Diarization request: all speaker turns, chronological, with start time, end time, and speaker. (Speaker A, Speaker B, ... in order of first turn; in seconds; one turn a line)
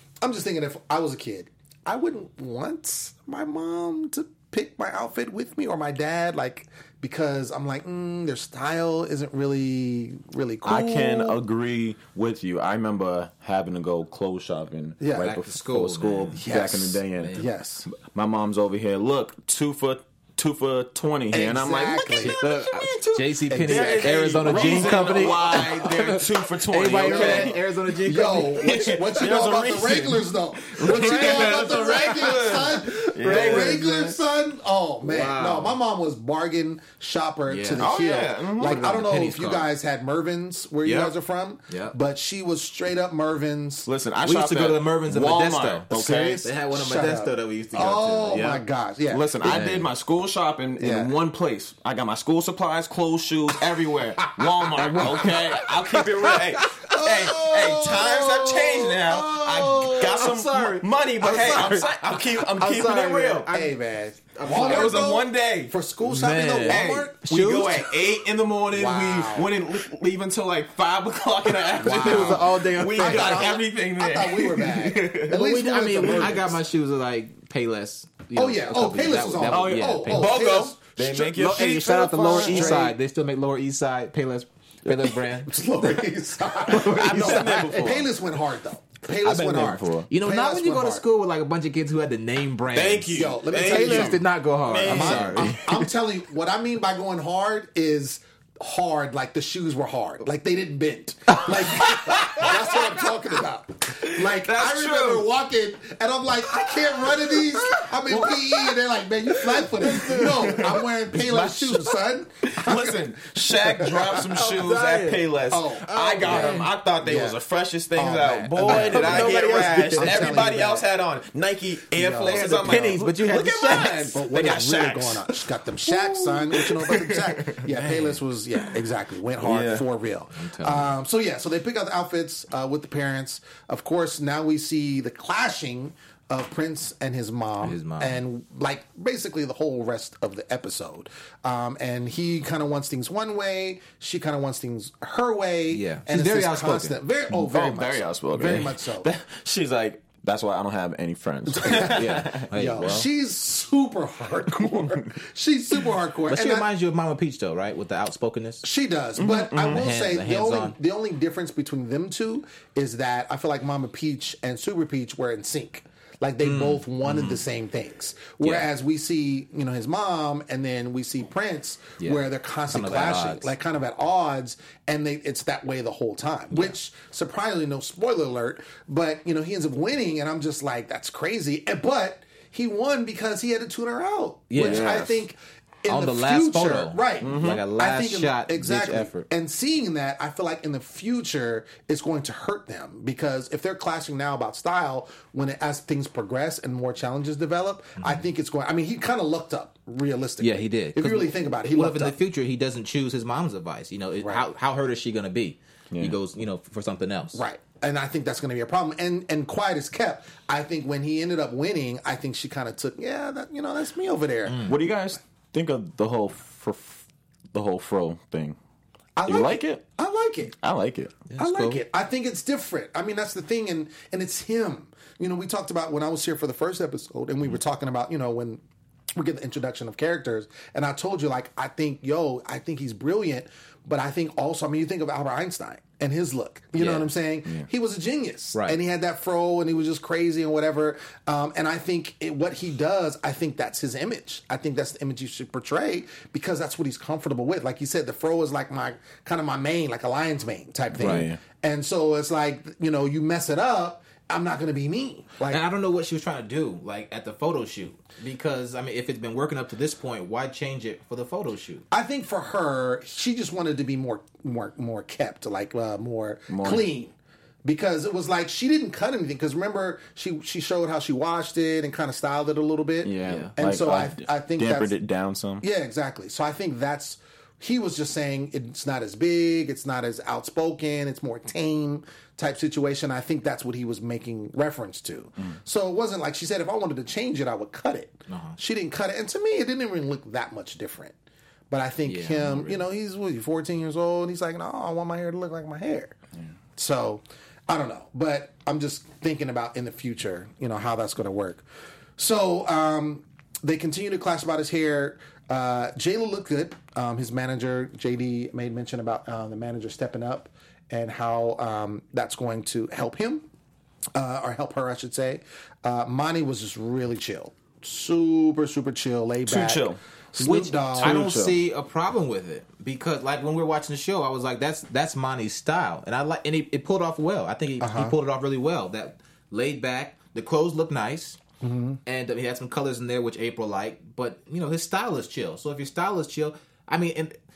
Speaker A: 0.2-11.4
Speaker B: 10.7-27.6
Speaker A: 15.0-15.3
Speaker C: 15.1-16.4
Speaker A: 16.3-17.9
Speaker C: 17.2-17.5
Speaker A: 21.3-22.4
Speaker C: 22.0-29.3
Speaker A: 23.5-25.7
Speaker A: 26.9-43.9
Speaker B: 28.5-34.2
Speaker C: 30.8-33.9
Speaker C: 35.0-35.8
Speaker C: 37.5-37.9
Speaker B: 37.8-39.1
Speaker C: 38.6-39.7
Speaker C: 40.9-41.1
Speaker C: 41.7-42.0
Speaker B: 43.9-46.5
Speaker C: 44.2-48.6
Speaker A: 45.9-49.6
Speaker B: 49.1-63.5
Speaker C: 49.4-49.9
Speaker A: 50.8-51.1
Speaker A: 54.7-55.4
Speaker C: 55.0-55.4
Speaker C: 56.2-57.4
Speaker A: 56.8-60.2
Speaker C: 59.1-63.8
Speaker A: 63.5-67.2
Speaker C: 64.3-65.2
Speaker B: 64.5-65.8
Speaker C: 66.0-68.0
Speaker B: 66.6-75.4
Speaker A: 68.7-69.5
Speaker C: 71.8-73.6
Speaker A: 71.8-76.6
Speaker C: 75.3-80.4
Speaker B: 76.0-76.5
Speaker A: 78.3-80.8
Speaker B: 79.5-82.9
Speaker C: 81.0-85.8
Speaker A: 82.3-83.0
Speaker A: 85.5-91.0
Speaker C: 86.5-88.0
Speaker B: 86.7-88.1
Speaker B: 89.2-90.1
Speaker C: 89.2-95.6
Speaker B: 92.7-95.9
Speaker A: 93.1-94.2
Speaker A: 94.8-114.4
Speaker B: 101.5-102.9
Speaker B: 104.0-105.3
Speaker B: 106.5-108.8
Speaker B: 109.3-110.9
Speaker C: 111.2-111.9
Speaker B: 112.5-127.7
Speaker C: 114.2-116.7
Speaker A: 115.5-117.4
Speaker A: 118.0-120.9
Speaker C: 118.6-120.8
Speaker A: 121.9-122.5
Speaker C: 122.3-124.2
Speaker A: 124.1-149.1
Speaker C: 127.8-128.2
Speaker B: 129.4-129.8
Speaker C: 130.3-130.9
Speaker C: 137.6-138.2
Speaker C: 145.7-147.0
Speaker B: 147.3-153.0
Speaker A: 151.5-156.7
Speaker C: 151.8-153.1
Speaker C: 156.3-158.7
Speaker A: 158.6-202.2
Speaker B: 159.2-159.9
Speaker C: 159.6-160.8
Speaker C: 166.4-167.4
Speaker C: 168.4-168.7
Speaker C: 172.0-173.5
Speaker C: 184.5-185.1
Speaker B: 184.6-185.2
Speaker C: 185.9-189.3
Speaker B: 187.2-187.7
Speaker C: 198.0-198.2
Speaker C: 200.4-207.4
Speaker B: 205.9-206.2
Speaker A: 207.3-214.7
Speaker C: 214.5-214.8
Speaker B: 214.6-218.6
Speaker A: 219.2-220.5
Speaker B: 219.3-219.8
Speaker B: 220.6-221.2
Speaker C: 221.3-221.8
Speaker A: 221.4-228.6
Speaker A: 229.2-255.6
Speaker C: 236.8-237.1
Speaker B: 250.9-251.4
Speaker C: 251.0-251.3
Speaker C: 255.5-261.9
Speaker A: 261.9-274.9
Speaker B: 266.5-266.9
Speaker B: 273.0-275.6
Speaker C: 273.2-273.5
Speaker A: 275.6-291.1
Speaker C: 288.3-288.6
Speaker A: 291.7-296.2
Speaker C: 292.1-292.8
Speaker A: 296.8-301.6
Speaker A: 302.2-313.5
Speaker A: 314.1-321.2
Speaker B: 319.5-320.0
Speaker C: 320.4-331.4
Speaker B: 320.9-321.6
Speaker A: 327.8-328.1
Speaker A: 331.6-332.0
Speaker C: 332.1-337.4